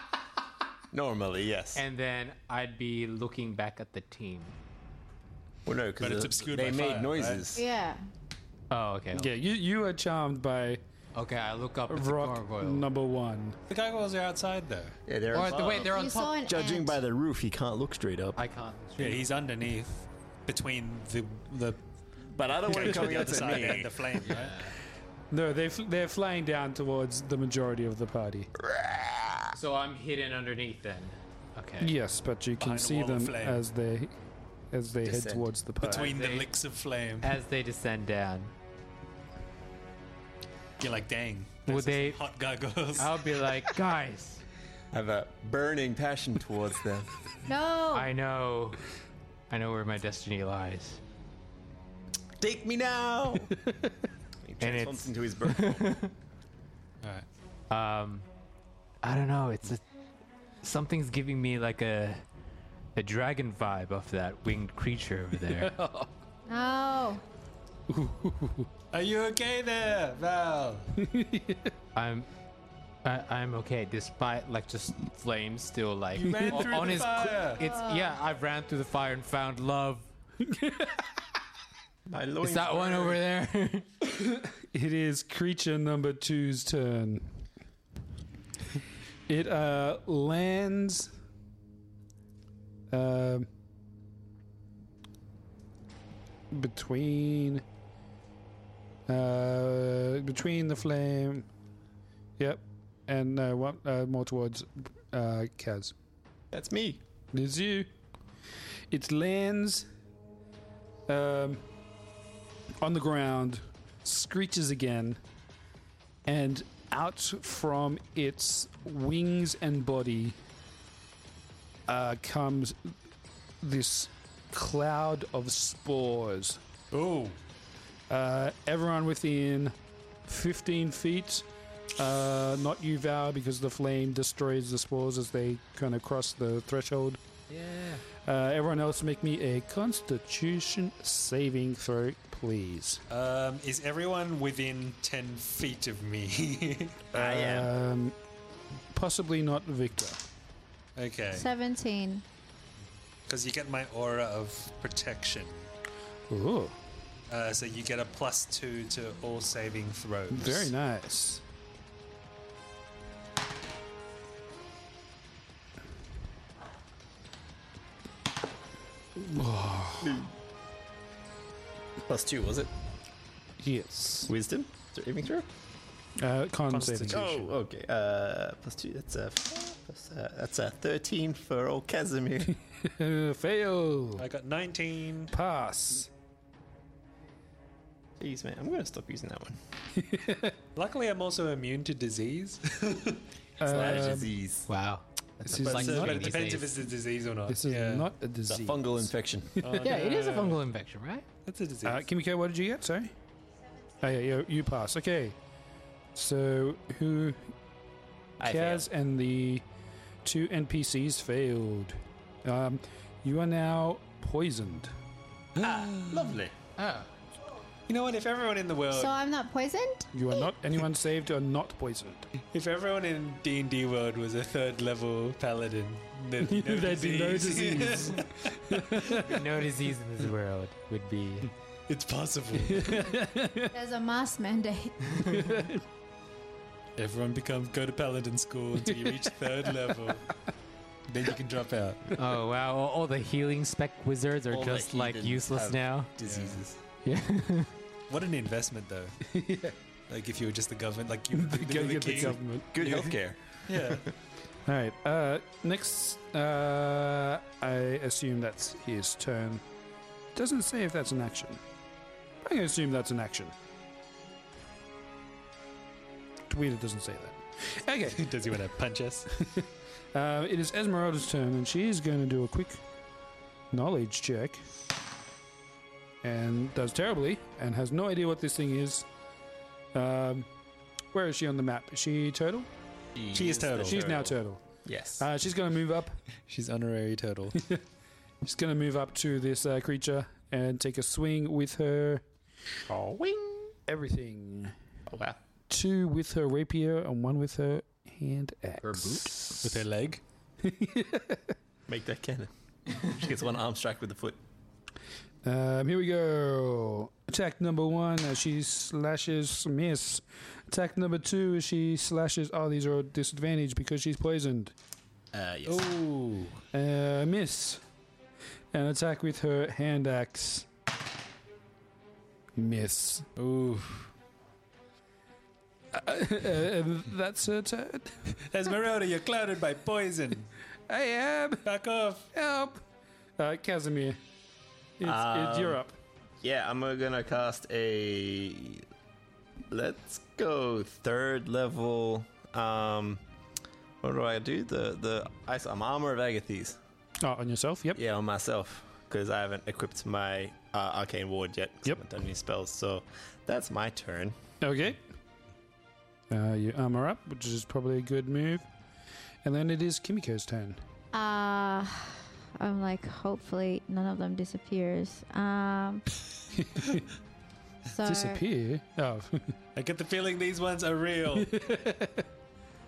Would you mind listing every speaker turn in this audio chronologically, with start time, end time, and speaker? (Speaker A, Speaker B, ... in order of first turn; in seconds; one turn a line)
Speaker A: 0.9-1.8
Speaker B: 1.8-4.6
Speaker A: 5.7-7.7
Speaker C: 6.0-7.5
Speaker D: 7.5-8.0
Speaker B: 8.7-9.3
Speaker E: 9.1-10.8
Speaker B: 11.2-12.9
Speaker E: 11.9-13.6
Speaker C: 13.7-15.0
Speaker A: 15.1-18.4
Speaker B: 15.3-16.4
Speaker D: 15.8-17.0
Speaker B: 18.4-19.3
Speaker C: 19.0-21.8
Speaker A: 22.3-23.9
Speaker C: 22.6-24.6
Speaker B: 24.2-24.7
Speaker E: 25.3-28.5
Speaker A: 28.6-29.4
Speaker B: 29.5-31.9
Speaker E: 31.8-34.1
Speaker C: 32.6-33.6
Speaker E: 34.7-36.1
Speaker A: 35.0-36.0
Speaker C: 35.8-37.3
Speaker B: 35.9-36.5
Speaker B: 37.2-38.5
Speaker C: 40.8-43.2
Speaker B: 41.7-42.2
Speaker B: 43.0-44.4
Speaker A: 44.9-47.1
Speaker D: 47.5-48.1
Speaker B: 47.9-48.8
Speaker B: 49.5-51.0
Speaker A: 52.4-53.5
Speaker A: 54.4-56.0
Speaker B: 54.6-56.1
Speaker B: 57.7-58.3
Speaker B: 59.0-59.8
Speaker B: 60.6-62.2
Speaker B: 63.0-65.8
Speaker E: 65.5-66.1
Speaker D: 66.5-67.2
Speaker E: 67.9-68.7
Speaker C: 68.9-70.9
Speaker E: 71.0-71.7
Speaker B: 72.0-72.3
Speaker B: 73.0-80.1
Speaker C: 76.2-77.6
Speaker D: 77.6-78.2
Speaker E: 80.4-81.1
Speaker A: 82.1-83.2
Speaker B: 82.4-83.9
Speaker E: 84.1-87.4
Speaker E: 89.3-91.1
Speaker E: 92.9-93.5
Speaker E: 96.5-97.6
Speaker E: 99.1-101.5
Speaker E: 102.4-105.9
Speaker A: 106.5-107.0
Speaker E: 107.3-107.9
Speaker E: 108.9-109.9
Speaker E: 111.1-111.6
Speaker E: 112.8-115.2
Speaker E: 116.3-120.4
Speaker E: 121.9-123.0
Speaker E: 123.6-126.6
Speaker C: 126.9-127.4
Speaker E: 128.1-129.8
Speaker E: 130.3-131.5
Speaker E: 132.0-137.2
Speaker B: 137.5-138.0
Speaker E: 138.2-143.0
Speaker C: 143.1-147.1
Speaker A: 147.1-147.7
Speaker E: 147.1-148.2
Speaker E: 148.9-150.2
Speaker C: 151.0-151.4
Speaker D: 151.3-152.2
Speaker C: 153.3-155.7
Speaker E: 156.3-156.8
Speaker C: 157.3-160.7
Speaker E: 160.3-161.4
Speaker E: 169.2-170.2
Speaker A: 170.0-170.3
Speaker A: 172.1-172.7
Speaker E: 173.6-174.3
Speaker A: 174.3-175.5
Speaker E: 176.2-177.4
Speaker C: 176.7-177.5
Speaker A: 177.1-182.6
Speaker E: 182.8-184.2
Speaker C: 184.2-185.3
Speaker E: 185.3-186.1
Speaker A: 188.2-189.6
Speaker E: 189.9-190.6
Speaker C: 190.8-193.2
Speaker E: 193.6-194.3
Speaker A: 193.6-194.7
Speaker B: 194.7-196.7
Speaker E: 195.4-196.4
Speaker C: 195.6-198.1
Speaker E: 197.5-199.1
Speaker A: 198.5-199.6
Speaker C: 199.6-200.6
Speaker B: 199.8-201.2
Speaker C: 201.4-202.1
Speaker E: 201.8-203.1
Speaker E: 204.0-205.4
Speaker E: 206.2-207.5
Speaker A: 208.4-208.9
Speaker E: 208.4-209.7
Speaker E: 210.2-214.9
Speaker C: 215.6-216.4
Speaker A: 215.6-216.5
Speaker B: 216.8-217.1
Speaker C: 217.9-219.2
Speaker D: 218.9-220.5
Speaker E: 220.1-222.3
Speaker C: 222.5-229.2
Speaker E: 226.4-229.3
Speaker B: 229.1-231.5
Speaker C: 231.9-233.0
Speaker E: 232.6-233.7
Speaker D: 233.7-235.4
Speaker E: 235.3-235.8
Speaker C: 237.0-240.3
Speaker E: 238.9-239.2
Speaker C: 241.1-242.1
Speaker B: 242.2-246.1
Speaker A: 244.5-246.8
Speaker C: 246.2-246.7
Speaker B: 247.1-247.7
Speaker C: 248.1-249.2
Speaker E: 249.3-249.8
Speaker C: 250.1-253.1
Speaker E: 251.3-253.0
Speaker A: 252.7-254.0
Speaker C: 253.7-254.1
Speaker E: 254.7-259.6
Speaker E: 260.4-261.6
Speaker E: 262.4-263.5
Speaker E: 266.5-268.3
Speaker C: 268.1-269.3
Speaker E: 269.4-272.8
Speaker E: 273.7-274.6
Speaker E: 276.2-279.1
Speaker E: 279.9-280.5
Speaker E: 281.1-282.7
Speaker A: 283.1-285.3
Speaker C: 283.3-284.0
Speaker E: 283.8-284.6
Speaker E: 285.2-286.2
Speaker C: 286.5-287.6
Speaker E: 288.4-292.2
Speaker A: 292.9-293.7
Speaker E: 293.9-294.8
Speaker A: 295.1-295.4
Speaker E: 295.7-299.8
Speaker B: 298.8-299.4
Speaker C: 299.6-300.2
Speaker E: 300.6-301.6
Speaker A: 301.9-304.4
Speaker E: 305.4-314.7
Speaker A: 315.3-315.9
Speaker C: 315.7-316.6
Speaker E: 316.7-317.8
Speaker E: 318.7-320.7
Speaker E: 322.6-323.3
Speaker C: 323.4-324.1
Speaker E: 325.9-328.4
Speaker C: 328.5-330.5
Speaker E: 330.9-331.7
Speaker C: 331.6-332.3
Speaker E: 332.3-332.8
Speaker E: 333.4-334.2
Speaker E: 335.0-335.9
Speaker A: 335.0-335.8
Speaker A: 336.4-338.8
Speaker A: 339.7-343.2
Speaker A: 344.0-346.8
Speaker E: 347.2-348.0
Speaker A: 347.9-354.4
Speaker E: 354.6-355.0
Speaker E: 356.3-358.7
Speaker E: 359.4-360.8
Speaker D: 361.1-366.1
Speaker E: 366.5-367.0
Speaker D: 367.9-368.4
Speaker E: 368.0-369.5
Speaker C: 369.8-371.6
Speaker E: 371.3-372.3